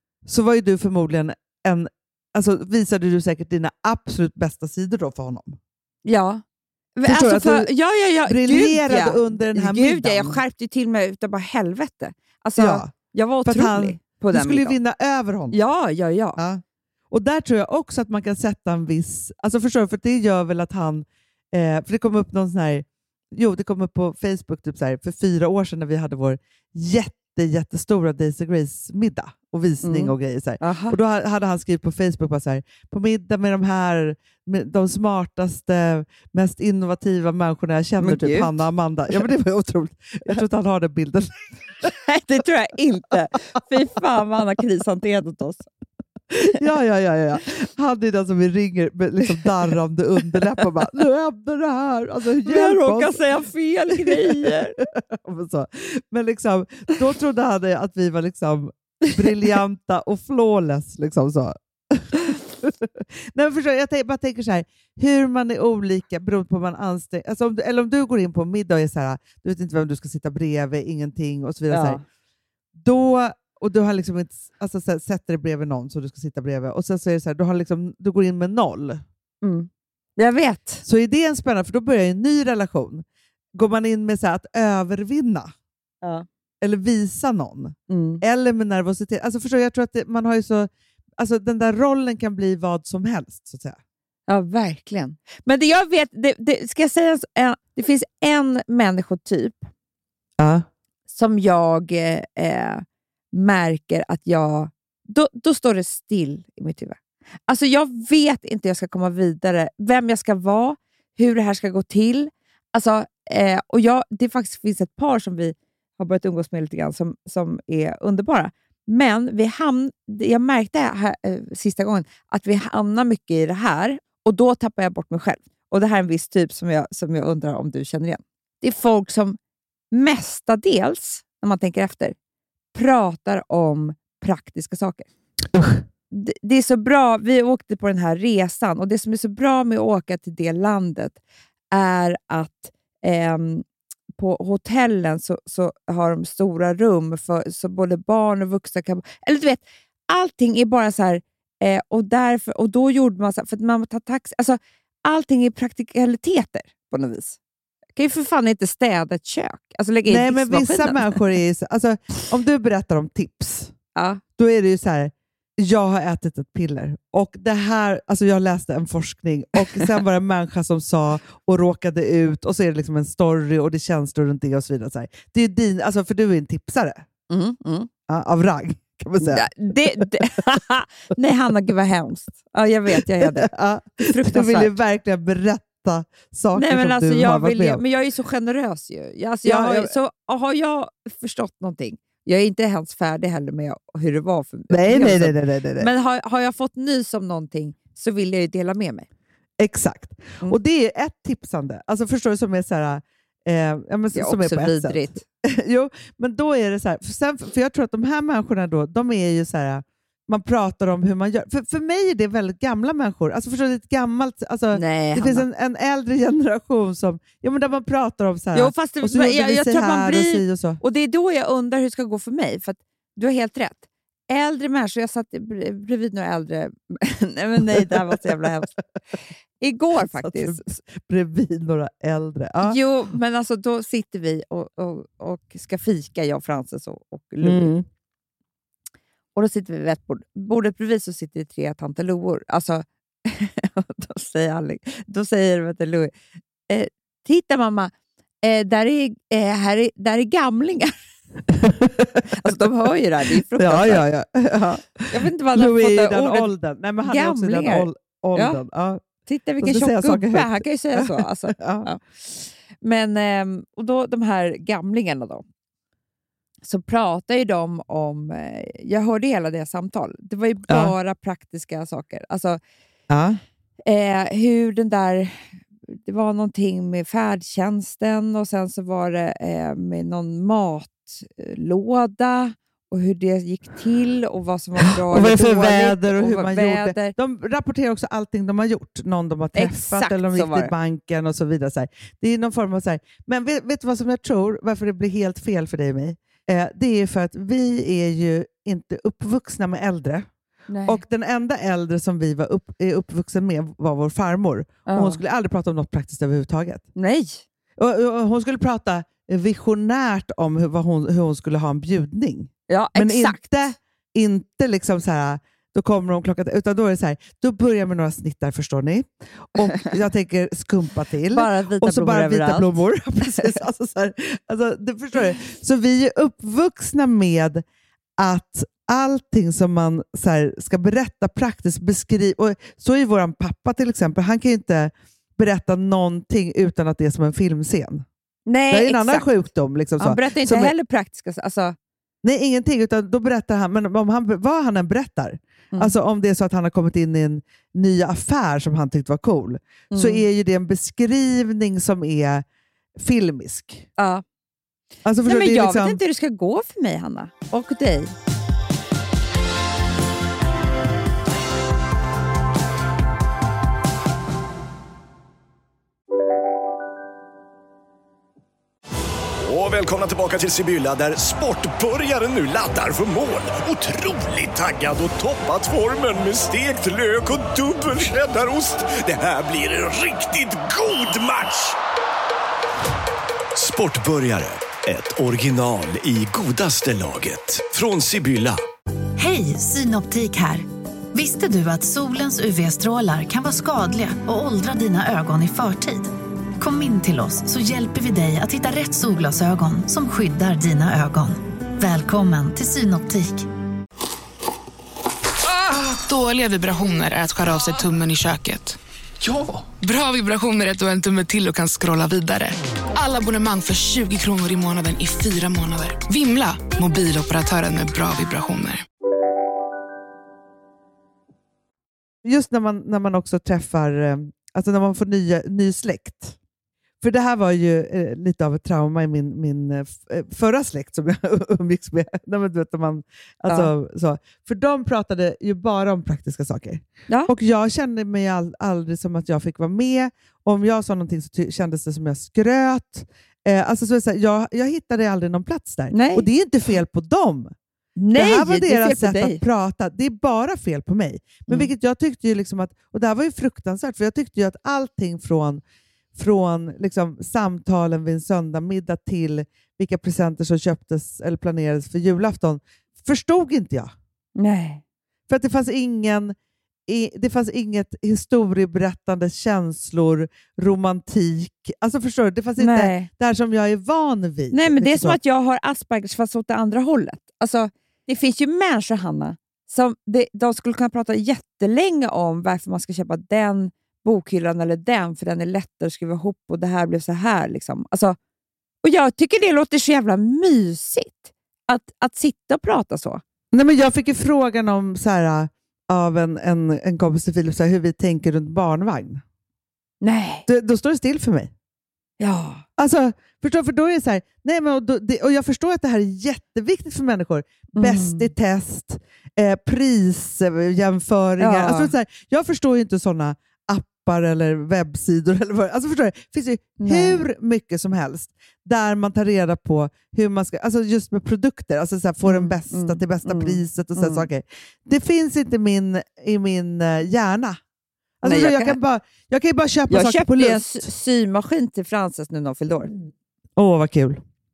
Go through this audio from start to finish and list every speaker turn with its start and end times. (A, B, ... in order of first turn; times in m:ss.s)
0:00.2-0:05.6 A
0:06.0-0:06.4 B
0:07.0-0:14.8 B
0:07.1-0:07.7 A
0:08.3-0:10.4 A
0:12.6-0:12.9 A
0:13.4-0:15.6 A
0:15.5-0:16.4 B
0:16.4-0:41.9 A
0:29.8-0:31.0 B
0:38.0-0:38.6 B
0:42.0-0:45.7 B
0:46.3-0:53.2 A
0:52.4-0:54.8 B
0:53.9-1:12.0 A
1:11.7-1:12.0 B
1:12.7-1:19.0 A
1:19.4-1:20.8 B
1:20.8-1:25.5 A
1:26.6-1:33.8 A
1:27.9-1:28.2 B
1:34.3-1:39.7 B
1:40.4-1:40.6 A
1:41.1-2:09.4 B
2:09.9-2:12.1 B
2:12.7-2:15.1 B
2:15.5-2:15.8 A
2:16.1-2:21.2 B
2:21.7-2:23.6 B
2:24.2-2:37.4 B
2:38.0-2:41.2 B
2:40.1-2:43.7 A
2:43.9-2:44.2 B
2:44.4-2:57.0 A
2:57.3-2:57.9 B
2:58.1-3:00.4 A
2:59.2-3:04.8 B
3:02.9-3:07.8 A
3:06.5-3:19.1 B
3:09.4-3:09.9 A
3:14.7-3:15.9 A
3:19.6-3:40.8 A
3:24.1-3:25.2 B
3:34.7-3:35.4 B
3:38.5-3:48.7 B
3:47.7-3:48.2 A
3:49.6-3:50.8 B
3:50.0-3:52.8 A
3:52.6-3:57.7 B
3:57.4-3:57.8 A
3:59.4-4:06.1 B
4:06.7-4:07.9 B
4:08.4-4:10.9 B
4:11.5-4:12.2 A
4:12.3-4:14.0 B
4:13.6-4:19.0 A
4:15.1-4:16.5 B
4:17.0-4:18.6 B
4:19.2-4:25.4 B
4:19.6-4:21.9 A
4:26.6-4:32.6 B
4:33.1-4:33.4 A
4:33.8-4:47.2 B
4:44.8-5:00.3 A
4:49.5-4:50.7 B
5:00.7-5:01.0 B
5:00.8-5:06.8 A
5:04.9-5:05.2 B
5:07.0-5:07.4 B
5:07.8-5:27.6 A
5:12.7-5:13.4 B
5:21.3-5:22.8 B
5:28.2-5:38.0 A
5:38.5-5:39.3 B
5:38.7-5:40.7 A
5:40.0-5:41.8 B
5:42.2-5:52.4 A
5:49.9-5:50.2 B
5:53.0-5:53.9 A
5:54.0-5:54.2 B
5:55.0-5:56.0 A
5:55.2-5:58.1 B
6:09.4-6:21.8 C
6:23.6-6:28.6 C
6:29.2-6:43.5 D
6:45.5-6:48.8 E
6:49.8-6:58.8 E
7:02.2-7:06.4 A
7:07.0-7:27.5 A
7:25.9-7:26.3 B
7:28.0-7:29.4 B
7:28.1-7:35.6 A
7:36.1-7:43.9 A
7:44.4-7:44.8 B
7:45.3-7:46.4 A
7:46.9-7:55.2 A
7:52.6-7:53.1 B
7:54.5-8:08.2 B
8:08.8-8:13.2 B
8:13.5-8:19.2 A
8:20.0-8:20.4 B
8:20.4-8:21.5 A
8:22.2-8:22.6 B
8:22.8-8:47.6 A
8:27.8-8:28.3 B
8:31.4-8:31.9 B
8:36.8-8:37.2 B
8:42.2-8:44.3 B
8:48.2-8:50.9 A
8:48.2-8:48.8 B
8:49.9-8:52.9 B
8:53.6-8:54.2 A